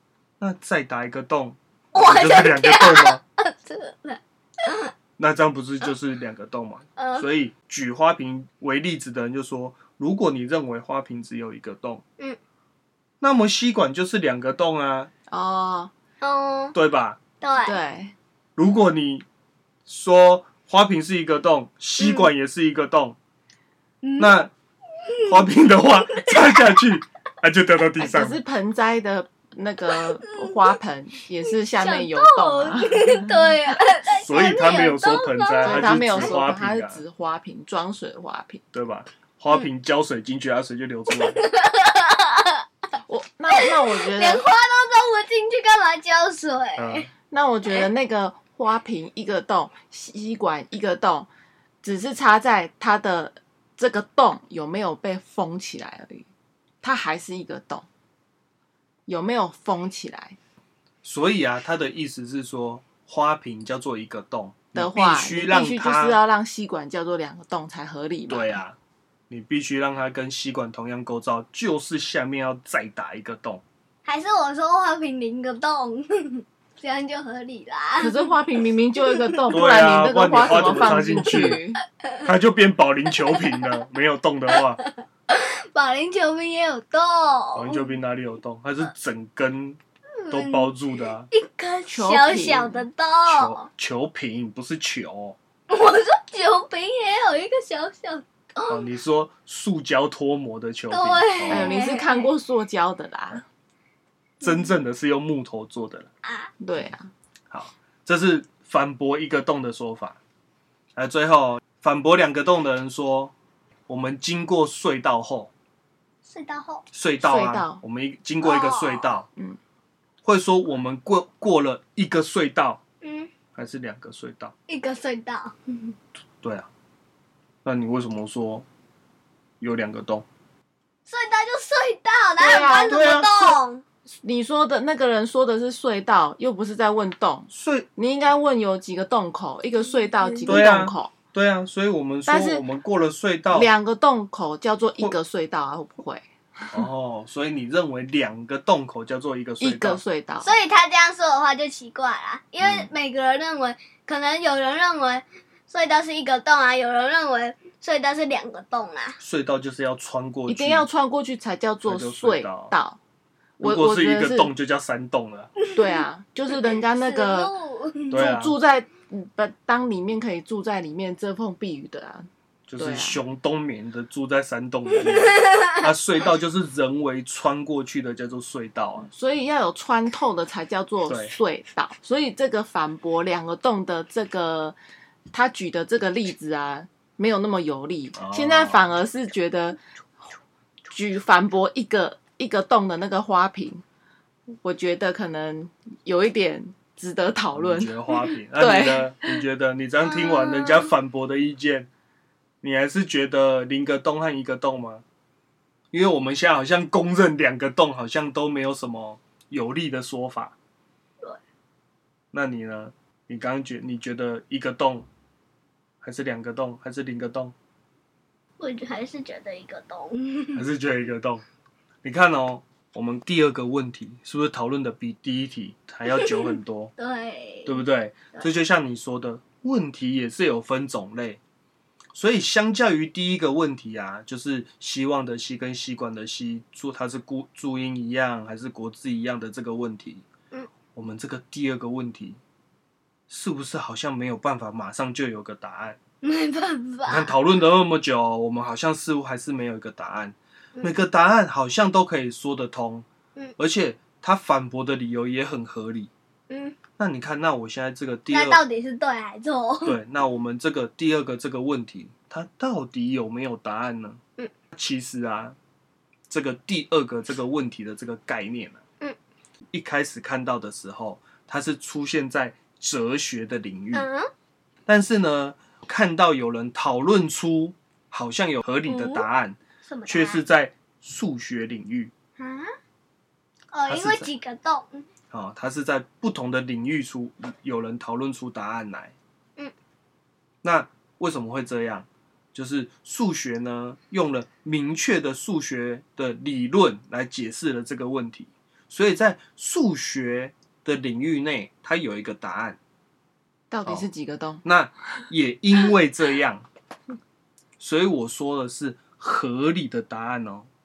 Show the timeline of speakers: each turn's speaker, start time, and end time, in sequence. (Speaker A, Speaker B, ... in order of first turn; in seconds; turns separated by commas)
Speaker A: 0.4-3.2, Speaker B: 1.9-4.9, Speaker A: 5.2-12.0, Speaker B: 7.0-7.3, Speaker A: 13.2-15.1, Speaker C: 15.3-15.9, Speaker B: 16.2-16.7, Speaker A: 16.7-17.2, Speaker B: 17.4-17.8, Speaker C: 17.6-18.1, Speaker A: 18.6-19.2, Speaker A: 19.9-23.1, Speaker B: 22.0-22.3, Speaker B: 24.0-24.4, Speaker A: 24.2-24.5, Speaker B: 25.0-25.5, Speaker A: 25.2-28.4, Speaker B: 26.1-26.8, Speaker C: 28.0-33.5, Speaker B: 30.3-30.7, Speaker B: 31.5-36.3, Speaker A: 34.1-37.0, Speaker C: 35.6-38.6, Speaker A: 38.7-41.4, Speaker B: 41.1-42.6, Speaker C: 43.1-44.4, Speaker B: 43.5-47.1, Speaker A: 46.8-47.1, Speaker C: 47.3-51.3, Speaker C: 51.8-56.3, Speaker C: 56.8-57.9, Speaker C: 59.1-60.4, Speaker A: 61.0-66.2, Speaker C: 64.7-68.6, Speaker A: 68.3-68.8, Speaker A: 69.3-73.6, Speaker B: 74.0-79.5, Speaker C: 78.0-81.8, Speaker A: 79.5-81.6, Speaker A: 82.2-84.8, Speaker B: 83.2-83.8, Speaker B: 84.5-87.9, Speaker A: 87.5-91.3, Speaker B: 90.2-90.7, Speaker B: 91.3-93.7, Speaker C: 91.9-92.8, Speaker A: 93.2-95.4, Speaker B: 95.7-98.9, Speaker A: 98.7-101.8, Speaker B: 100.9-102.3, Speaker C: 101.5-103.4, Speaker A: 104.4-106.1, Speaker B: 104.4-104.7, Speaker B: 106.2-106.5, Speaker C: 106.6-107.1, Speaker A: 107.5-110.2, Speaker A: 110.9-113.3, Speaker A: 113.9-115.5, Speaker B: 116.2-116.8, Speaker A: 116.9-119.3, Speaker C: 117.2-117.8, Speaker B: 118.4-119.1, Speaker A: 120.2-122.8, Speaker B: 123.0-123.3, Speaker A: 123.5-124.5, Speaker B: 124.7-125.9, Speaker A: 126.4-126.7, Speaker A: 127.6-128.7, Speaker A: 129.6-130.2, Speaker B: 131.1-133.8, Speaker C: 132.4-133.1, Speaker A: 132.8-133.5, Speaker C: 134.2-141.1, Speaker A: 137.5-137.9, Speaker B: 139.9-140.6, Speaker A: 140.4-143.7, Speaker C: 142.3-142.6, Speaker C: 143.5-146.8, Speaker A: 146.7-150.0, Speaker C: 149.6-150.5, Speaker B: 150.4-159.2, Speaker A: 152.6-152.9, Speaker A: 159.2-160.9, Speaker C: 160.5-163.0, Speaker A: 161.8-162.7, Speaker C: 163.6-164.5, Speaker A: 163.6-165.5, Speaker B: 165.6-168.2, Speaker C: 165.7-167.5, Speaker A: 168.1-168.6, Speaker C: 168.1-173.2, Speaker A: 172.7-179.1, Speaker B: 175.0-175.9, Speaker C: 179.1-184.8, Speaker A: 181.1-181.3, Speaker C: 185.3-189.8, Speaker A: 188.1-188.9, Speaker C: 190.9-193.8, Speaker C: 194.6-199.4, Speaker A: 197.5-201.9, Speaker B: 200.0-200.9, Speaker A: 202.6-205.0, Speaker A: 205.9-210.6, Speaker A: 212.3-215.1, Speaker A: 216.0-217.5, Speaker B: 218.6-220.6, Speaker A: 220.5-221.4, Speaker A: 222.0-226.9, Speaker B: 226.1-226.4, Speaker B: 227.0-228.5, Speaker A: 227.7-231.4, Speaker A: 232.1-240.2, Speaker A: 240.9-242.4, Speaker A: 243.3-246.0, Speaker B: 246.2-247.3, Speaker A: 247.1-253.1, Speaker A: 253.6-256.1, Speaker B: 256.5-256.8, Speaker A: 257.0-258.6, Speaker B: 258.3-260.0, Speaker A: 259.8-264.2, Speaker A: 264.7-265.6, Speaker A: 266.3-268.8, Speaker A: 269.7-274.1, Speaker B: 273.9-274.3, Speaker A: 274.9-282.1, Speaker B: 278.9-279.2, Speaker B: 279.9-280.4, Speaker B: 282.4-282.7, Speaker B: 283.7-285.1, Speaker A: 283.9-284.3, Speaker A: 285.3-289.1, Speaker A: 290.6-302.8, Speaker C: 303.7-304.6, Speaker A: 304.6-306.6, Speaker A: 307.8-310.7